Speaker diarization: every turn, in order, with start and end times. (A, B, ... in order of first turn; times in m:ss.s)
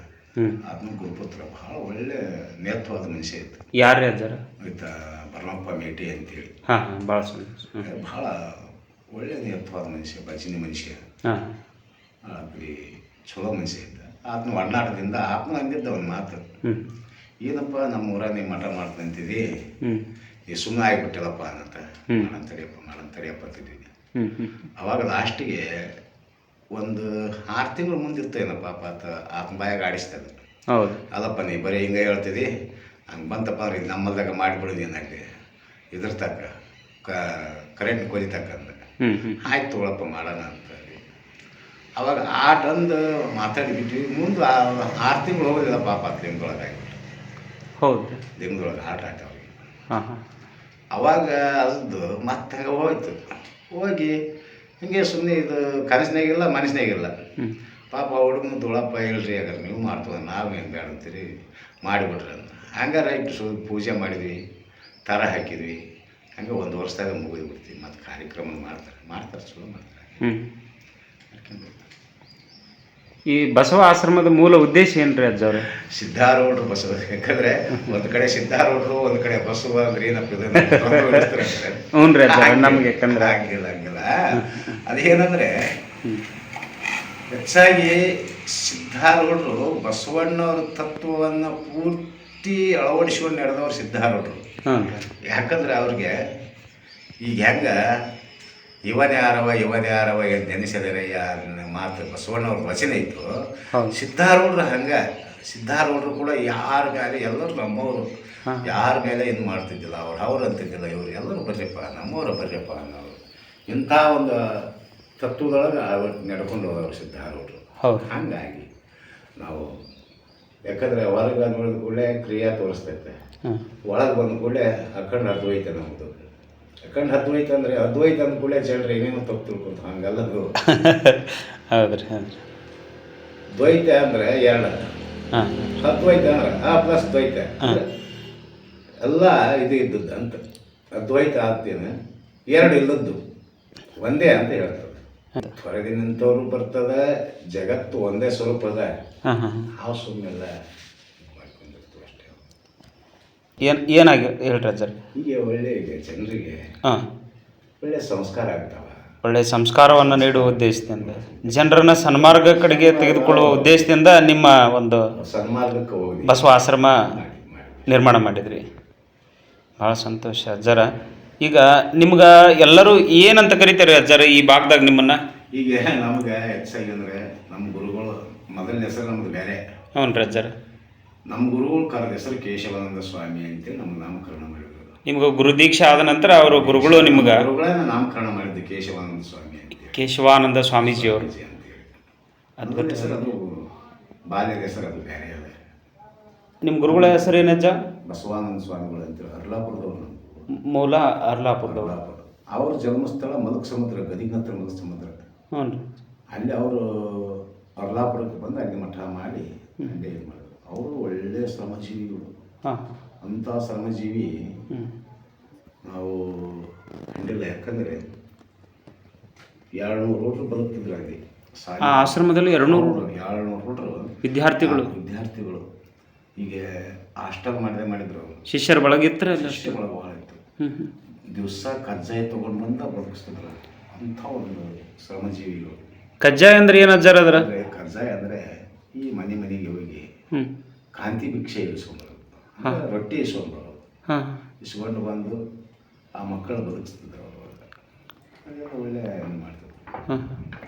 0:00.6-0:03.6 A
0:03.7-0:04.4 B
0:04.6-0:06.5 A
0:06.7-0:07.8 B
0:07.8-0:11.0 A
0:11.2-0:11.6 B
0:12.2-0:16.4 A
0:17.4-0:19.4 A
0:20.5-0:23.9 A
0:24.2-0:24.5 B
0:24.8-0:26.0 A
0:26.7-0:30.4 A
0:30.7-0:31.0 B
0:31.1-0:32.5 A
0:33.1-0:35.2 A
0:35.9-0:36.5 A
0:37.0-0:38.8 A
0:39.0-0:39.4 B
0:39.4-0:41.0 A
0:42.0-0:47.0 A
0:47.8-0:48.2 B
0:48.4-0:49.6 A
0:49.9-0:50.2 B
0:50.9-0:53.2 A
0:53.7-0:54.2 A
0:54.8-0:57.1 A
0:57.9-1:01.3 A
1:01.8-1:04.4 A
1:05.1-1:05.8 A
1:06.4-1:10.3 A
1:10.2-1:10.5 B
1:11.3-1:11.9 A
1:13.3-1:15.7 B
1:15.6-1:25.5 A
1:20.6-1:23.3 B
1:27.3-1:36.2 A
1:34.6-1:35.0 B
1:37.2-1:37.8 A
1:38.9-1:48.1 A
1:48.6-1:53.2 A
1:53.7-1:58.7 A
1:57.8-1:58.1 B
1:59.4-1:59.7 A
2:00.7-2:03.2 A
2:03.9-2:06.3 A
2:06.8-2:10.5 A
2:10.6-2:12.4 B
2:13.5-2:14.9 A
2:15.3-2:15.7 B
2:15.8-2:17.9 A
2:19.0-2:20.4 A
2:20.9-2:21.9 A
2:22.5-2:23.2 A
2:24.0-2:28.9 A
2:29.2-2:29.7 B
2:29.8-2:30.5 A
2:31.2-2:32.4 A
2:33.6-2:34.9 B
2:35.2-2:36.6 A
2:37.8-2:39.0 A
2:39.2-2:45.1 B
2:39.8-2:43.9 A
2:45.2-2:48.2 A
2:46.2-2:47.0 B
2:47.9-2:48.6 B
2:49.8-2:55.2 B
2:55.5-2:59.6 A
3:00.0-3:00.5 B
3:01.3-3:04.9 A
3:05.1-3:07.4 B
3:06.3-3:10.0 A
3:09.9-3:11.2 B
3:10.8-3:11.9 A
3:12.6-3:13.2 B
3:12.6-3:13.7 A
3:14.3-3:15.6 A
3:16.6-3:17.7 B
3:16.9-3:17.4 A
3:18.0-3:20.4 A
3:20.6-3:21.9 B
3:21.6-3:25.1 A
3:25.5-3:25.8 B
3:26.3-3:32.3 A
3:32.6-3:32.9 B
3:33.2-3:34.3 A
3:35.9-3:38.0 A
3:39.8-3:45.6 A
3:41.8-3:42.9 B
3:44.2-3:44.9 B
3:46.4-3:48.4 A
3:48.5-3:49.7 B
3:49.3-3:50.4 A
3:50.6-3:50.9 B
3:51.3-3:55.9 A
3:56.2-3:57.4 B
3:57.3-3:58.4 A
3:59.0-4:00.1 A
4:01.0-4:03.8 A
4:04.1-4:04.4 B
4:04.6-4:05.4 A
4:06.2-4:07.7 A
4:08.4-4:09.8 A
4:10.1-4:10.4 B